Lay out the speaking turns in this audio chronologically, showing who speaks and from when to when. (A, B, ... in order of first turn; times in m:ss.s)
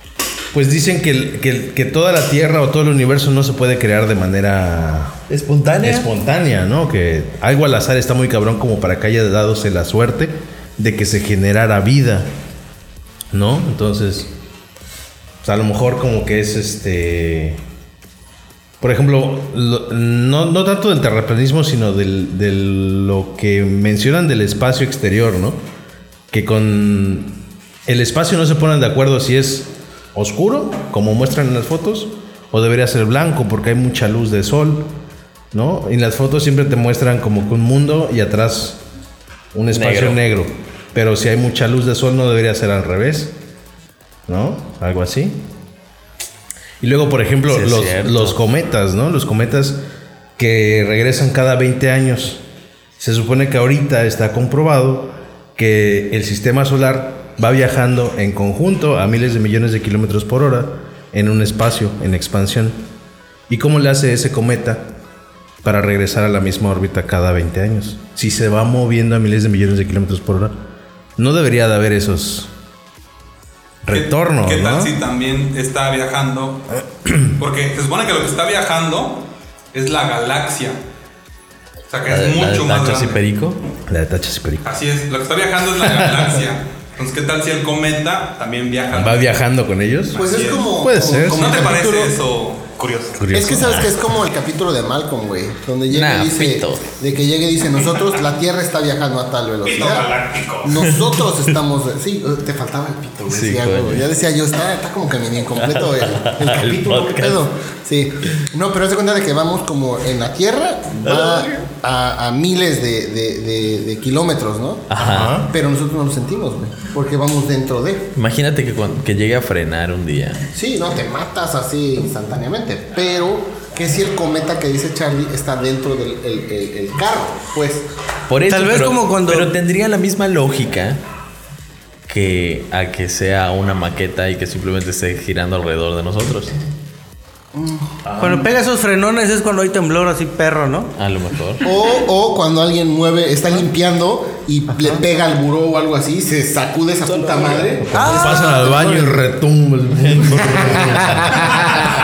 0:00.5-0:05.2 A
0:05.3-0:06.1 B
0:05.8-0:12.3 A
0:13.3-0:14.3 A
0:15.4-0:17.6 A
0:18.8-0:25.6 A
0:26.3-0:34.9 A
0:35.5-0:38.8 A
0:39.5-0:43.3 A
0:39.7-0:40.2 B
0:44.3-0:45.4 A
0:46.8-0:49.8 A
0:47.5-0:48.4 B
0:50.4-0:52.4 A
0:53.0-1:02.8 A
1:03.5-1:04.9 A
1:05.6-1:10.6 A
1:11.2-1:12.5 A
1:13.8-1:14.9 A
1:13.9-1:16.6 C
1:17.0-1:17.3 A
1:17.4-1:20.8 C
1:21.9-1:23.2 C
1:22.1-1:23.6 B
1:23.9-1:24.6 A
1:24.6-1:29.3 C
1:28.9-1:30.2 A
1:30.1-1:32.1 D
1:30.2-1:30.7 C
1:30.8-1:31.6 A
1:31.3-1:33.2 C
1:33.2-1:33.9 A
1:33.3-1:40.1 D
1:35.9-1:36.9 B
1:39.6-1:40.8 C
1:40.6-1:58.1 D
1:43.3-1:44.0 B
1:45.6-1:47.4 B
1:51.0-1:51.5 B
1:54.9-1:55.4 B
1:55.0-1:55.5 A
1:58.1-2:00.4 B
2:00.5-2:07.9 D
2:08.3-2:11.0 B
2:08.4-2:09.5 E
2:12.1-2:16.5 B
2:17.5-2:18.1 D
2:18.1-2:18.4 A
2:18.2-2:20.9 E
2:21.0-2:21.6 B
2:21.6-2:29.1 D
2:27.0-2:27.7 B
2:27.8-2:31.9 A
2:27.9-2:29.1 E
2:30.1-2:30.4 B